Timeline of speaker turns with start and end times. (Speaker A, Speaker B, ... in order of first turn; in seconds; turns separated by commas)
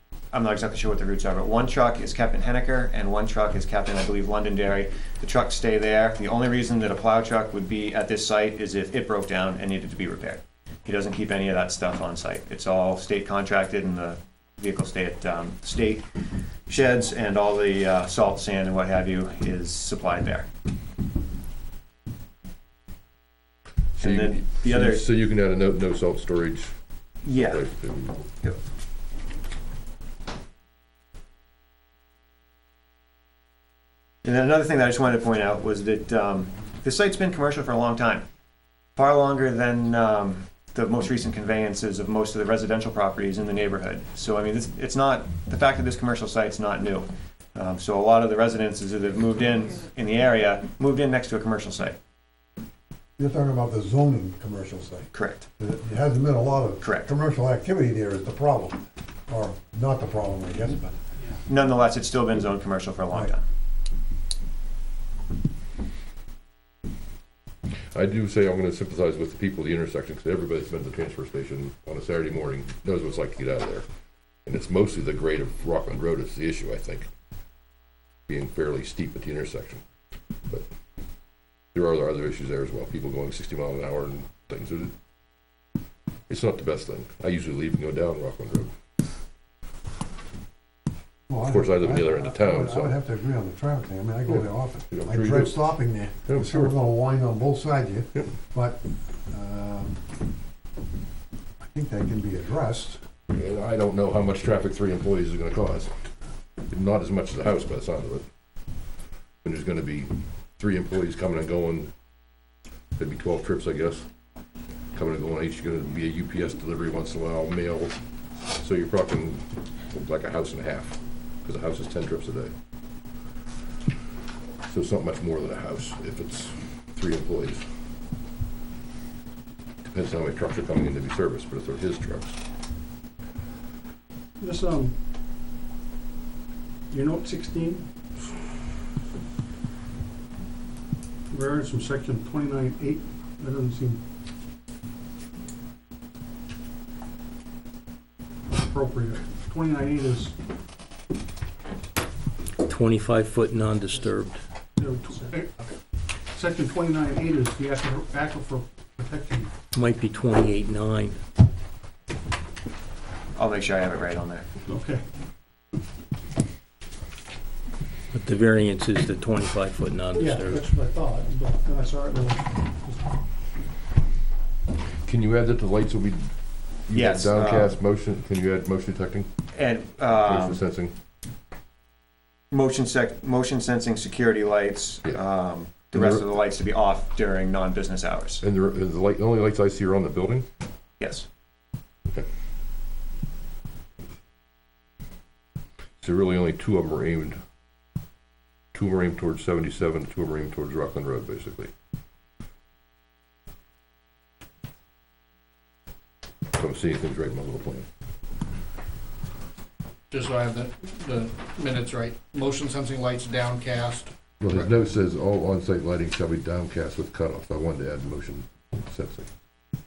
Speaker A: 0.3-16.0, Speaker A: 16.7-20.5, Speaker A: 24.0-25.0, Speaker B: 24.0-26.7, Speaker A: 27.2-27.6, Speaker B: 27.3-28.2, Speaker A: 34.2-38.2, Speaker A: 39.0-51.9, Speaker C: 53.2-61.0, Speaker A: 55.1-55.5, Speaker A: 56.8-57.1, Speaker A: 61.5-63.4, Speaker B: 67.9-73.8, Speaker B: 74.5-77.1, Speaker B: 78.3-79.8, Speaker B: 81.7-84.9, Speaker B: 86.3-88.7, Speaker C: 91.3-100.0, Speaker B: 91.4-93.0, Speaker B: 94.2-95.7, Speaker B: 96.2-96.8, Speaker C: 101.6-103.0, Speaker B: 103.3-105.9, Speaker B: 106.7-108.2, Speaker B: 109.4-111.9, Speaker B: 113.0-114.0, Speaker B: 114.9-118.0, Speaker B: 118.5-122.5, Speaker B: 124.7-127.6, Speaker B: 129.8-132.4, Speaker D: 134.4-134.9, Speaker D: 136.9-137.8, Speaker D: 141.3-144.0, Speaker D: 148.5-150.3, Speaker E: 152.6-154.4, Speaker D: 154.8-155.7, Speaker D: 156.3-159.5, Speaker E: 159.7-161.2, Speaker A: 163.3-164.4, Speaker D: 164.7-165.0, Speaker E: 168.1-170.6, Speaker D: 170.1-173.0, Speaker B: 175.0-176.3, Speaker B: 176.9-179.3, Speaker A: 176.9-177.8, Speaker A: 179.5-180.6, Speaker B: 180.2-180.9, Speaker A: 182.5-188.4, Speaker B: 185.9-186.3, Speaker B: 188.4-190.4, Speaker A: 191.0-191.2, Speaker B: 196.0-197.4, Speaker B: 198.7-201.7, Speaker B: 206.6-207.8, Speaker F: 210.1-214.7, Speaker B: 214.4-219.3